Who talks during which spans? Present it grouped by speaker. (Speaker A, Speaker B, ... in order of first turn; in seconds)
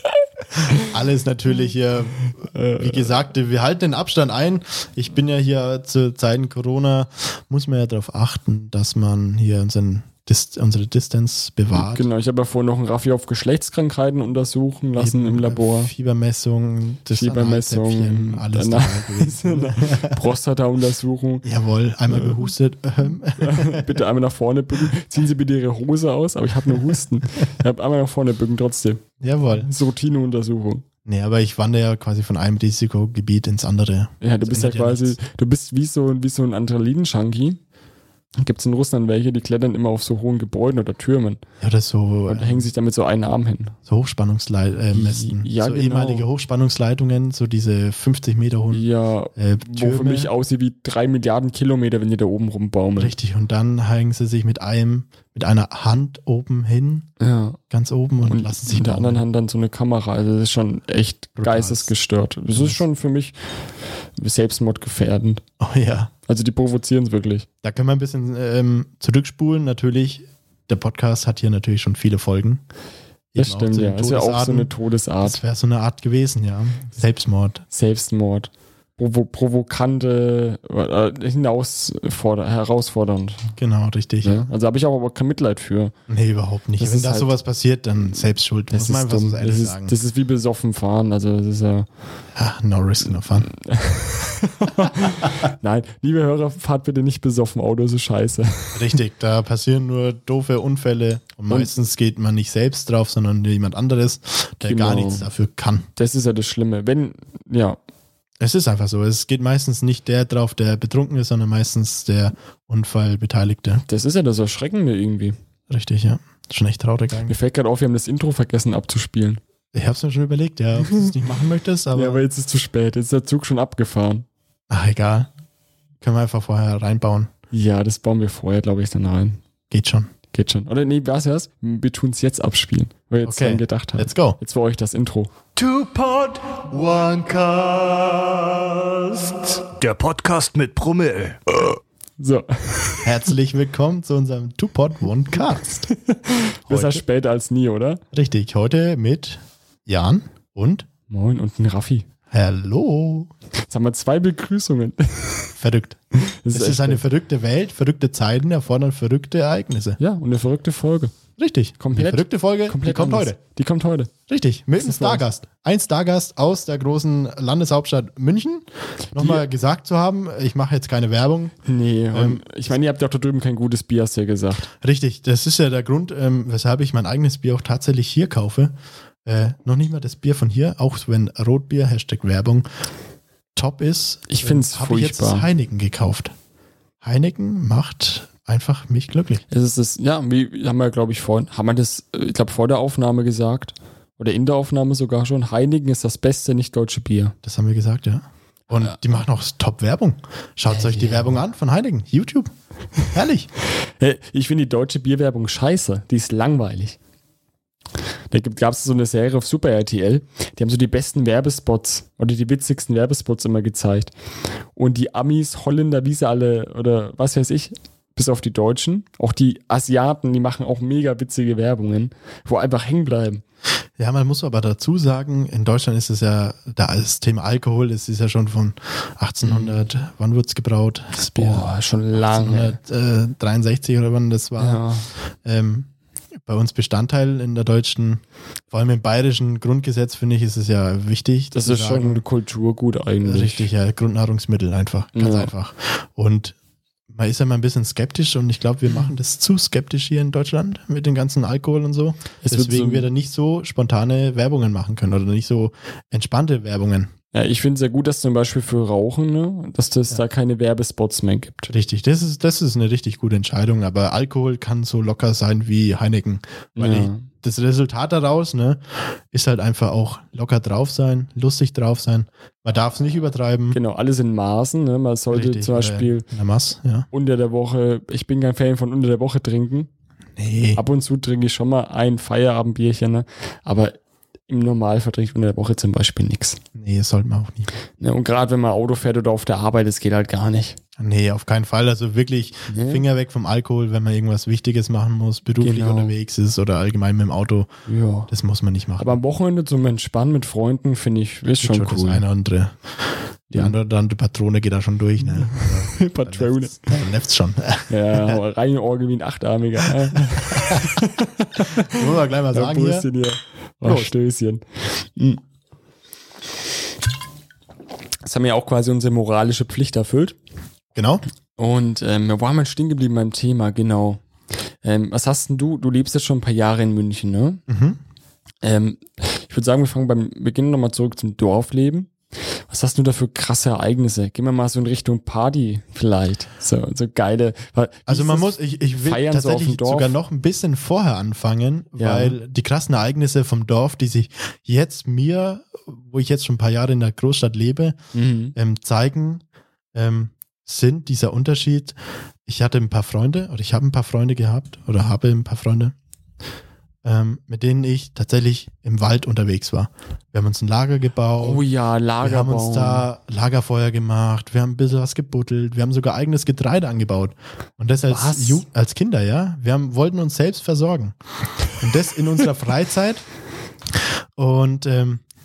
Speaker A: 0.6-0.8, 2.4-3.1, 11.7-15.9, 17.1-21.4, 22.1-22.4, 23.4-30.8, 34.2-37.6, 38.4-41.4, 42.3-43.8, 44.9-46.2, 48.7-53.1, 57.2-57.6, 58.2-63.6, 64.2-65.4, 66.3-67.5, 73.3-75.4, 77.7-83.6, 84.2-85.9, 86.8-87.3, 88.7-91.9, 93.4-98.8, 104.6-105.3, 106.0-107.8, 113.9-115.3, 117.3-119.4, 121.9-124.2, 127.5-129.4, 130.3-135.3, 142.2-143.2, 145.9-148.0, 151.1-152.1, 153.6-155.5, 156.1-157.0, 160.0-161.1, 161.8-164.1, 164.8-165.2, 169.2-169.4, 171.6-174.7, 184.3-185.5, 189.5-197.3, 200.7-201.4, 204.0-207.0, 208.3-214.1, 214.8-223.4, 229.4-229.8, 231.2-232.8, 234.6-235.1, 241.5-243.7, 245.1-245.5, 252.4-253.1, 257.3-261.7, 266.8-267.2, 273.7-276.3, 277.1-279.9, 280.7-283.9, 284.5-286.6, 288.0-290.8, 292.7-293.0, 295.6-296.1, 297.9-298.3, 299.0-302.2, 305.2-306.9, 307.9-315.4, 318.2-320.4, 321.6-324.2, 324.8-327.6, 328.6-340.1, 342.0-342.4, 348.1-348.5, 361.4-363.1, 368.1-368.6
Speaker B: 0.8-12.1, 14.9-20.2, 21.4-24.0, 29.2-29.7, 31.0-35.2, 41.6-42.7, 43.9-48.8, 49.4-50.3, 53.0-57.1, 57.7-59.2, 61.4-61.9, 62.5-62.8, 65.6-66.1, 67.6-72.6, 73.3-77.6, 83.6-84.5, 86.1-90.0, 92.3-93.5, 98.7-105.9, 108.4-113.8, 115.7-117.4, 119.7-122.2, 124.7-125.3, 126.0-127.3, 129.7-130.1, 133.2-134.4, 143.0-145.9, 146.7-147.0, 148.1-150.9, 152.3-153.3, 155.6-156.0, 156.5-160.0, 161.4-163.4, 164.3-171.6, 172.1-172.5, 174.7-182.7, 183.6-186.3, 187.0-189.4, 197.4-202.5, 203.0-203.5, 224.0-234.8, 235.4-235.9, 236.4-242.2, 243.2-246.5, 247.1-257.1, 261.7-273.8, 275.3-277.1, 280.4-280.8, 286.8-287.7, 291.0-297.7, 298.3-299.2, 301.6-308.4, 310.1-310.9, 311.7-313.1, 313.8-314.1, 320.9-321.2, 327.7-328.0, 338.1-348.0, 348.5-349.4, 349.9-355.9, 357.0-361.6, 362.2-371.1, 371.7-373.2, 373.9-375.2
Speaker C: 135.6-141.4